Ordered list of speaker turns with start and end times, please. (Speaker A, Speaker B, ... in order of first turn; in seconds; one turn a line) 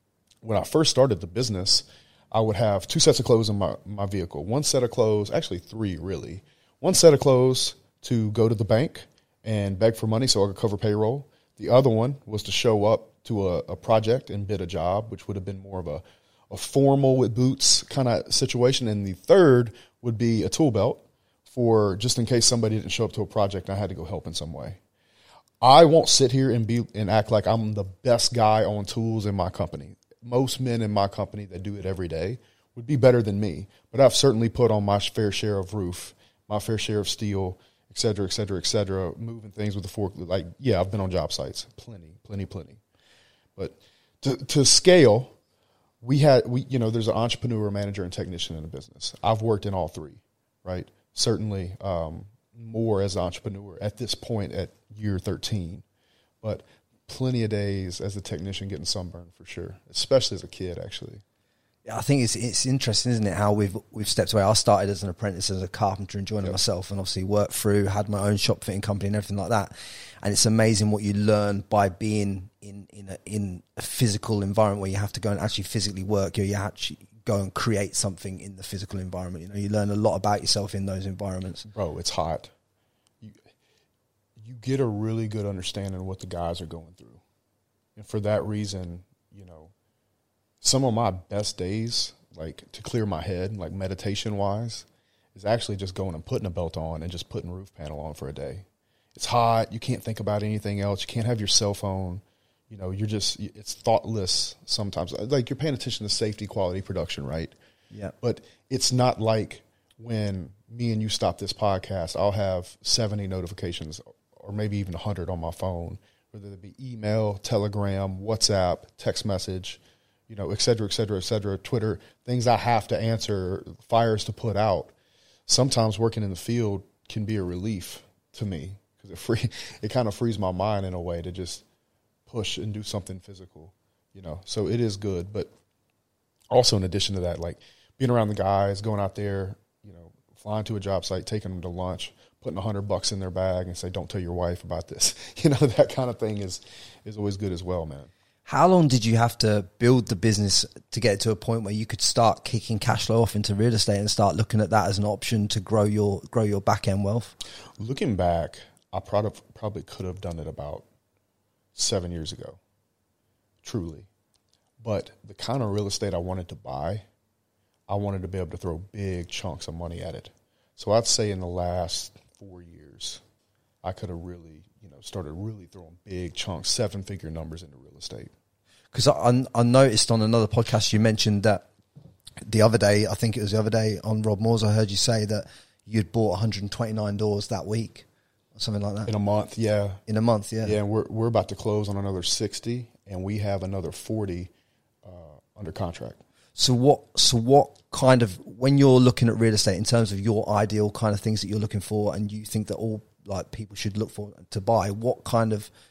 Speaker A: 0.4-24.8
Speaker A: 25.6-42.8
Speaker A: 43.6-45.3
Speaker A: 46.0-55.8
Speaker A: 56.4-61.2
Speaker B: 61.9-81.7
Speaker A: 81.7-82.5
Speaker A: 84.4-87.2
Speaker A: 88.0-89.7
Speaker A: 90.6-107.5
Speaker A: 108.2-124.9
Speaker A: 125.5-131.6
Speaker A: 132.3-135.5
Speaker A: 136.5-148.1
Speaker B: 148.5-157.3
Speaker A: 157.8-160.8
Speaker A: 161.8-162.6
Speaker A: 163.6-164.1
Speaker A: 164.8-167.1
Speaker A: 167.9-173.2
Speaker A: 173.8-178.3
Speaker B: 178.9-181.7
Speaker B: 182.4-189.1
Speaker A: 189.1-190.0
Speaker B: 190.1-190.8
Speaker A: 190.6-194.5
Speaker A: 195.1-196.2
Speaker B: 196.6-205.7